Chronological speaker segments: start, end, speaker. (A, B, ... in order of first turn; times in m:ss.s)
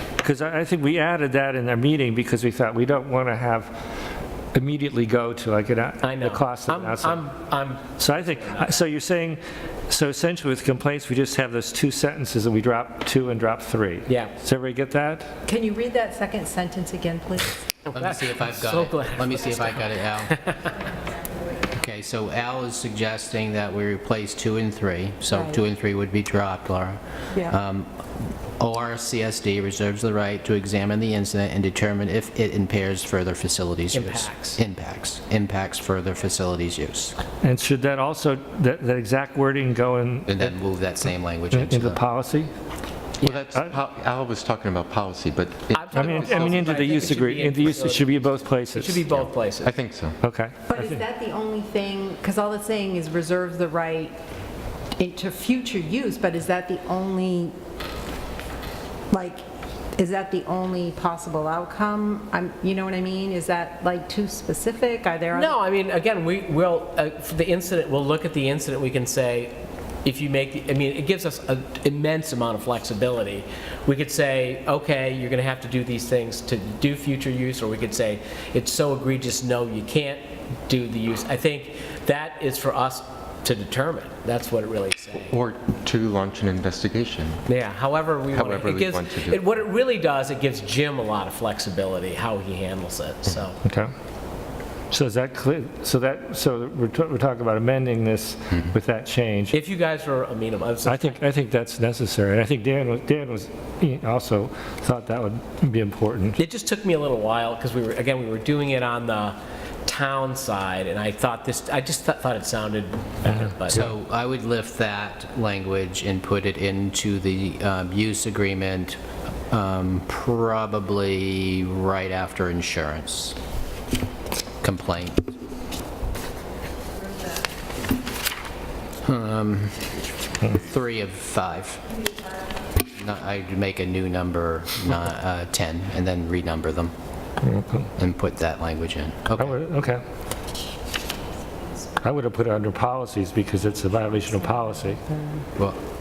0:00.2-0:03.7 A
0:04.5-0:07.2 A
0:06.0-0:08.8 B
0:08.0-0:15.3 A
0:14.1-0:14.3 B
0:15.4-0:17.6 C
0:17.9-0:20.4 D
0:17.9-0:20.7 B
0:21.7-0:28.0 D
0:28.6-0:37.2 D
0:33.9-0:34.6 B
0:37.4-0:40.5 A
0:40.3-0:42.0 D
0:41.5-0:42.5 A
0:43.2-0:47.0 E
0:45.7-0:49.8 B
0:46.0-0:49.1 A
0:49.1-0:50.2 E
0:50.2-0:51.0 A
0:50.7-0:54.1 C
0:55.0-0:57.5 C
0:59.1-0:59.4 C
1:00.0-1:05.5 C
1:05.3-1:25.4 B
1:25.3-1:27.4 E
1:27.4-1:33.6 B
1:28.3-1:29.4 E
1:33.6-1:33.9 A
1:34.9-1:39.6 A
1:39.5-1:41.2 B
1:40.8-1:46.4 A
1:46.4-1:53.9 B
1:53.3-1:53.5 A
1:53.7-2:03.4 D
2:04.6-2:05.3 D
2:09.0-2:11.9 D
2:13.0-2:16.9 D
2:17.4-2:17.9 A
2:18.0-2:19.6 D
2:19.4-2:20.0 A
2:22.0-2:25.0 A
2:25.1-2:25.4 C